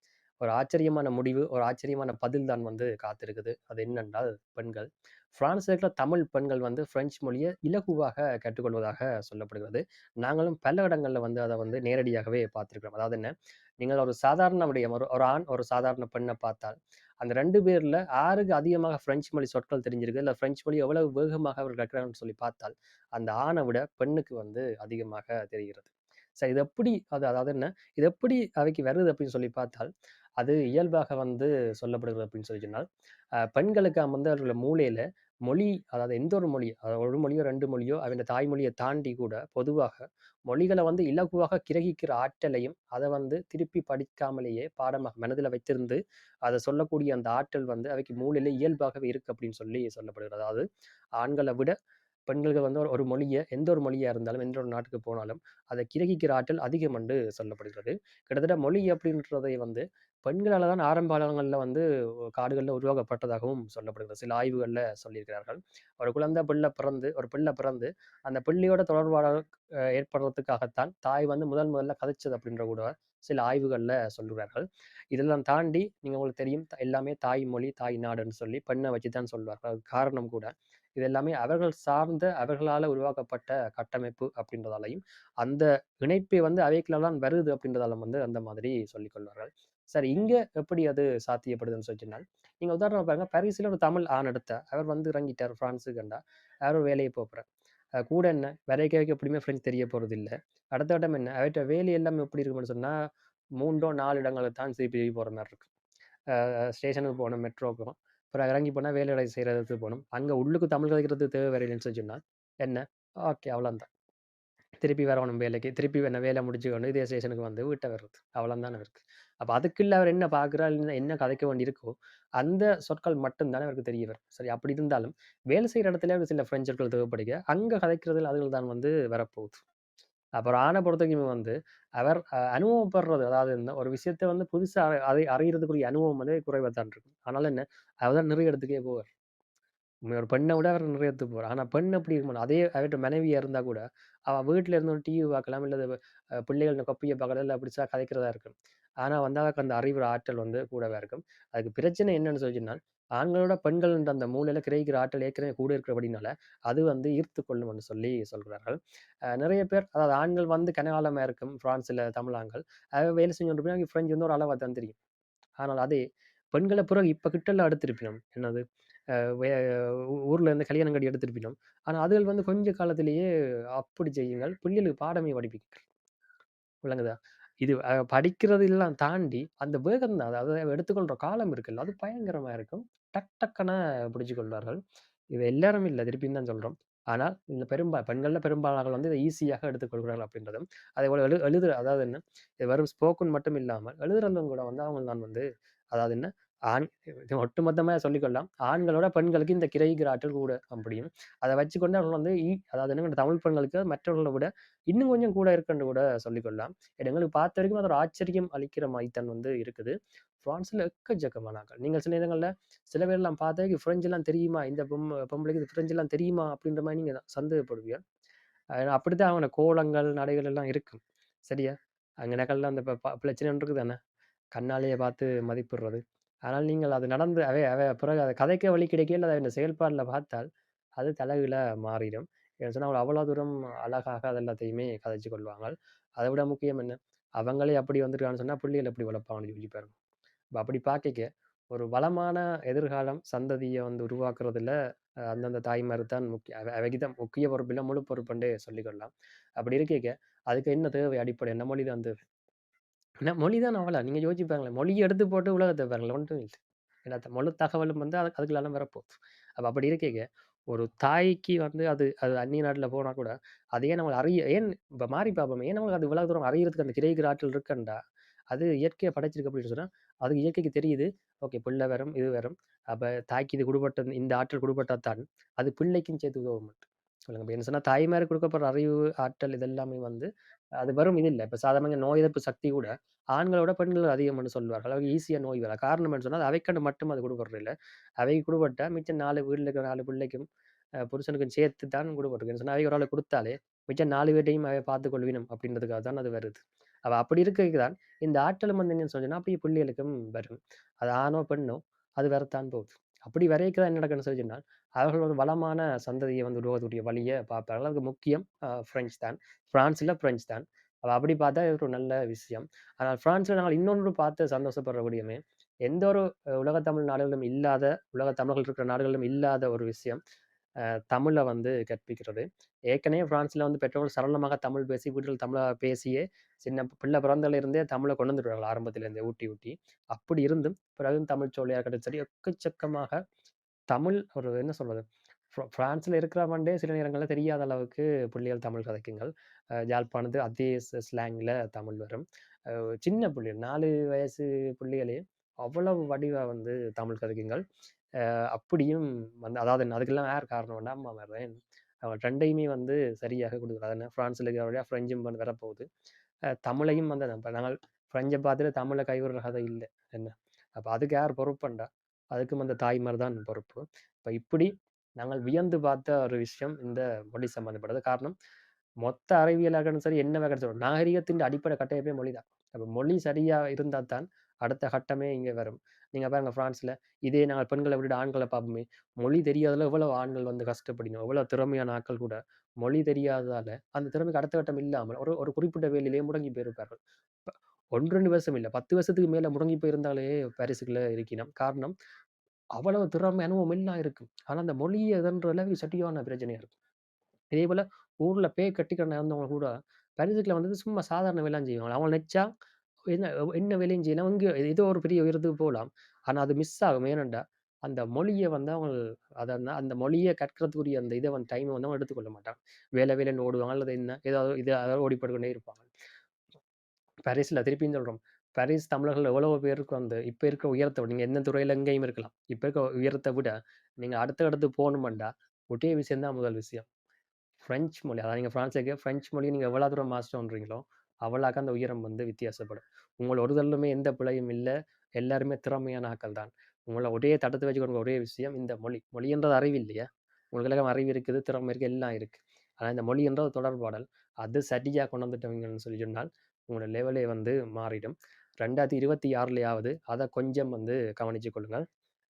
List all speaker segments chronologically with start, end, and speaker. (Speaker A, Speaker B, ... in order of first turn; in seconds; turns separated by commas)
Speaker A: 0.4-32.8, Speaker A: 33.5-50.6, Speaker A: 51.2-51.7, Speaker A: 52.3-61.8, Speaker A: 62.4-69.4, Speaker A: 69.9-97.4, Speaker A: 98.0-102.9, Speaker A: 103.6-105.7, Speaker A: 106.3-113.9, Speaker A: 114.8-129.6, Speaker A: 130.4-139.1, Speaker A: 140.1-145.9, Speaker A: 146.4-158.8, Speaker A: 159.3-164.9, Speaker A: 165.6-166.0, Speaker A: 166.5-168.6, Speaker A: 169.2-173.3, Speaker A: 173.8-175.9, Speaker A: 176.8-184.8, Speaker A: 185.3-218.0, Speaker A: 218.9-224.0, Speaker A: 224.6-230.5, Speaker A: 231.0-239.9, Speaker A: 240.6-244.7, Speaker A: 245.3-252.2, Speaker A: 253.2-268.0, Speaker A: 268.5-280.3, Speaker A: 280.8-290.4, Speaker A: 291.1-320.2, Speaker A: 321.1-333.2, Speaker A: 333.9-339.3, Speaker A: 339.9-347.6, Speaker A: 348.5-355.9, Speaker A: 356.6-368.4, Speaker A: 369.0-391.9, Speaker A: 392.8-396.7, Speaker A: 397.5-402.5, Speaker A: 403.1-415.9, Speaker A: 417.3-426.9, Speaker A: 427.6-451.8